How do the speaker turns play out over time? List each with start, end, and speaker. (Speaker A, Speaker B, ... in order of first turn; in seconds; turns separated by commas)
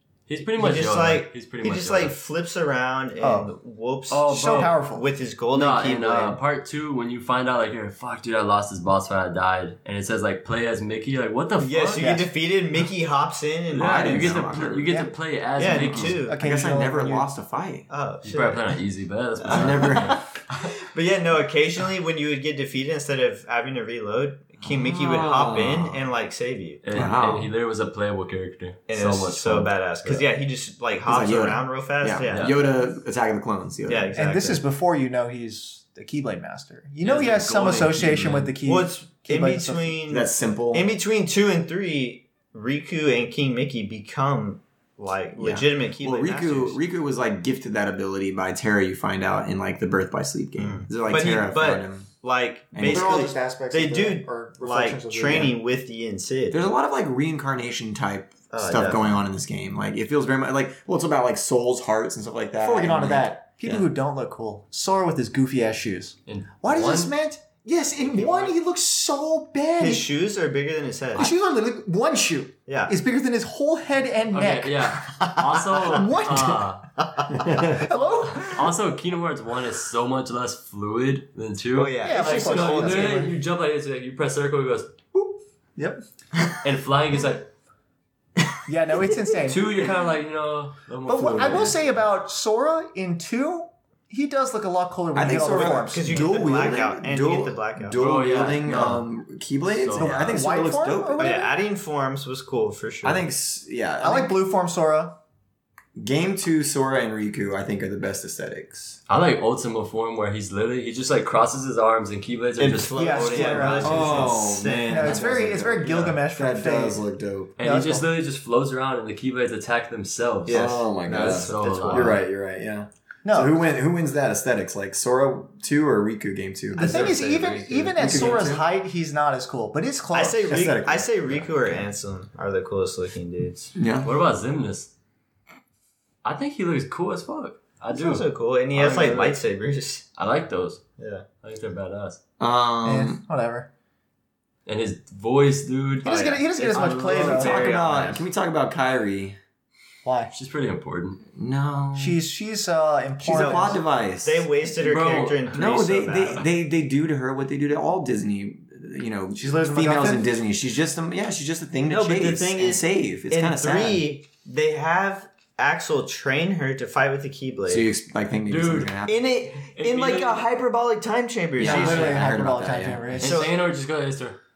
Speaker A: 0.3-2.2, Speaker B: 0.5-4.3, Speaker C: 3.2-3.5, Speaker A: 4.1-4.8, Speaker C: 4.3-5.1, Speaker B: 4.9-6.4, Speaker A: 5.5-12.1, Speaker B: 11.6-14.4, Speaker C: 12.0-12.3, Speaker A: 13.7-16.2, Speaker D: 13.8-14.9, Speaker B: 15.6-16.4, Speaker C: 16.0-17.3, Speaker D: 16.2-17.9, Speaker B: 17.9-18.7, Speaker A: 18.2-20.2, Speaker B: 19.4-26.9, Speaker D: 19.5-20.2, Speaker D: 24.6-26.0, Speaker A: 26.8-30.2, Speaker D: 26.9-27.5, Speaker B: 28.9-32.5, Speaker D: 31.1-34.1, Speaker A: 32.3-32.6, Speaker B: 33.9-34.6, Speaker C: 34.1-40.0, Speaker A: 37.0-38.5, Speaker B: 38.6-46.8, Speaker D: 40.1-40.9, Speaker D: 45.4-52.1, Speaker B: 50.6-56.7, Speaker D: 52.7-53.3, Speaker C: 52.8-55.6, Speaker D: 56.5-63.9, Speaker B: 58.5-59.2, Speaker C: 62.6-70.1, Speaker A: 66.3-67.1, Speaker B: 68.1-68.5, Speaker B: 69.8-71.3, Speaker C: 71.2-76.7, Speaker B: 72.7-72.9, Speaker A: 74.3-76.9, Speaker C: 77.3-78.7, Speaker D: 77.5-77.7, Speaker A: 77.8-85.0, Speaker B: 81.8-83.3, Speaker C: 82.0-83.3, Speaker C: 85.8-86.0, Speaker A: 86.6-87.5, Speaker C: 88.7-89.7, Speaker A: 89.5-92.0, Speaker C: 91.1-96.4, Speaker D: 95.1-101.4, Speaker B: 95.5-98.0, Speaker A: 98.0-99.1, Speaker A: 99.7-100.4, Speaker C: 100.0-101.5, Speaker B: 101.2-103.3, Speaker D: 103.0-104.3, Speaker C: 104.0-105.2, Speaker D: 106.0-109.0, Speaker A: 109.1-114.3, Speaker B: 112.6-115.2, Speaker C: 113.0-114.2, Speaker D: 113.8-117.6, Speaker C: 114.9-117.0, Speaker A: 117.6-122.2, Speaker C: 117.6-118.1, Speaker B: 120.5-122.2, Speaker D: 120.5-128.7, Speaker C: 123.2-123.6, Speaker C: 126.8-131.0, Speaker B: 126.8-128.5, Speaker B: 130.1-133.7, Speaker D: 131.3-131.8, Speaker D: 133.8-134.1, Speaker A: 134.0-134.9, Speaker A: 136.2-139.4, Speaker B: 137.9-140.1, Speaker A: 140.2-140.8, Speaker B: 141.0-141.3, Speaker A: 141.4-142.2, Speaker D: 142.4-143.2, Speaker C: 142.8-143.7, Speaker A: 144.7-147.3, Speaker C: 146.0-147.7, Speaker B: 146.1-148.2, Speaker D: 147.1-149.4, Speaker C: 150.0-150.3, Speaker A: 150.3-151.2, Speaker D: 151.3-152.2, Speaker C: 152.0-153.8, Speaker D: 153.2-154.5, Speaker B: 153.3-156.5, Speaker A: 154.8-155.6, Speaker D: 155.5-164.1, Speaker C: 159.4-160.3, Speaker B: 161.9-167.9, Speaker D: 167.7-169.2, Speaker A: 168.5-169.0, Speaker B: 169.1-172.3, Speaker A: 169.6-170.5, Speaker D: 171.6-173.3, Speaker C: 171.6-173.5, Speaker A: 171.8-172.1, Speaker A: 173.1-174.4, Speaker B: 173.2-173.6